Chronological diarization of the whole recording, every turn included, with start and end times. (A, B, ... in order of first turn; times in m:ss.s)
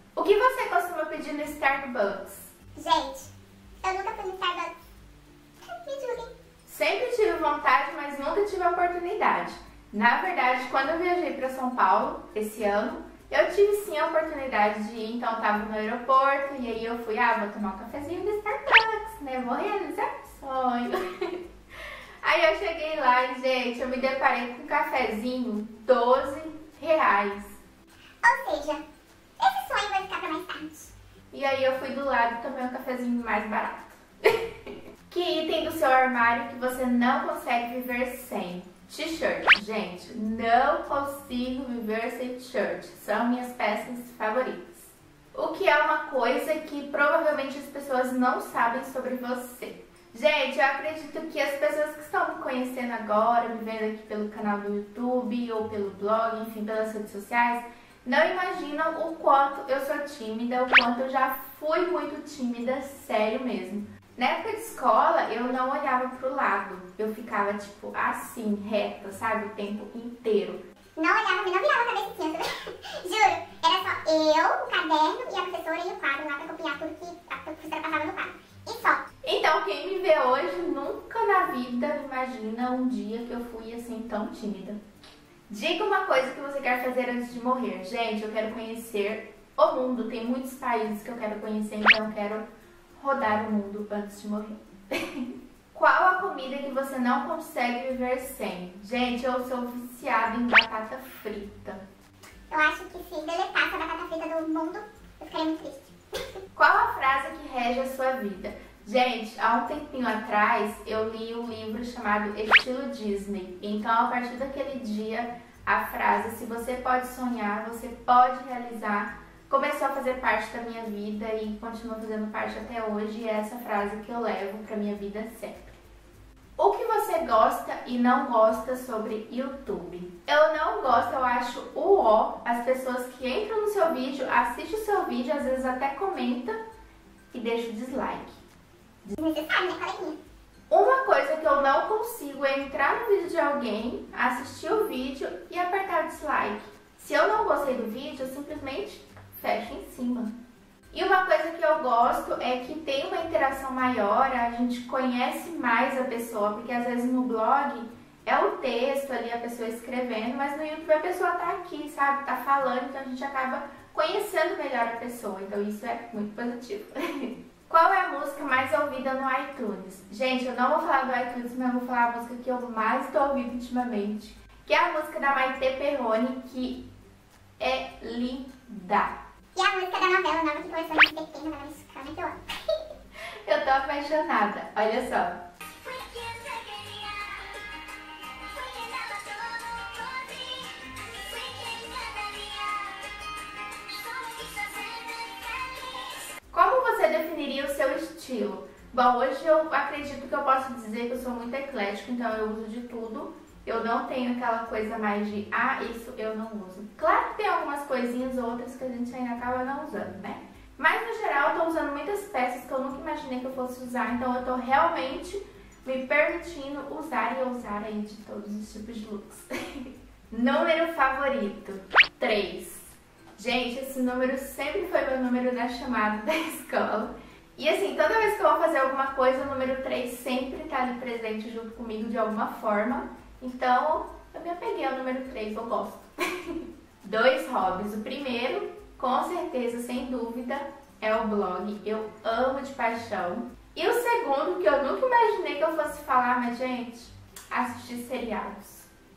0:00.2-0:02.5 A
0:02.8-0:03.3 B
0:03.8-0:04.7 B
0:05.6-0:06.3 B
0:06.7-0:21.4 A
0:22.2-0:27.6 A
0:28.2-0:28.8 B
0:29.4-0:30.9 B
0:31.3-1:10.6 A
1:11.0-1:19.0 B
1:19.2-1:24.8 A
1:25.5-1:32.4 A
1:33.0-1:41.8 A
1:42.5-1:45.9 B
1:46.6-2:05.8 A
2:06.6-2:16.6 A
2:17.3-2:18.4 A
2:19.2-2:20.2 B
2:20.7-2:30.4 A
2:30.9-2:56.8 A
2:57.6-2:59.2 A
2:59.5-3:02.9 B
3:03.4-3:05.4 A
3:05.8-3:07.4 B
3:08.5-3:13.0 B
3:13.9-3:16.3 B
3:16.5-4:08.9 A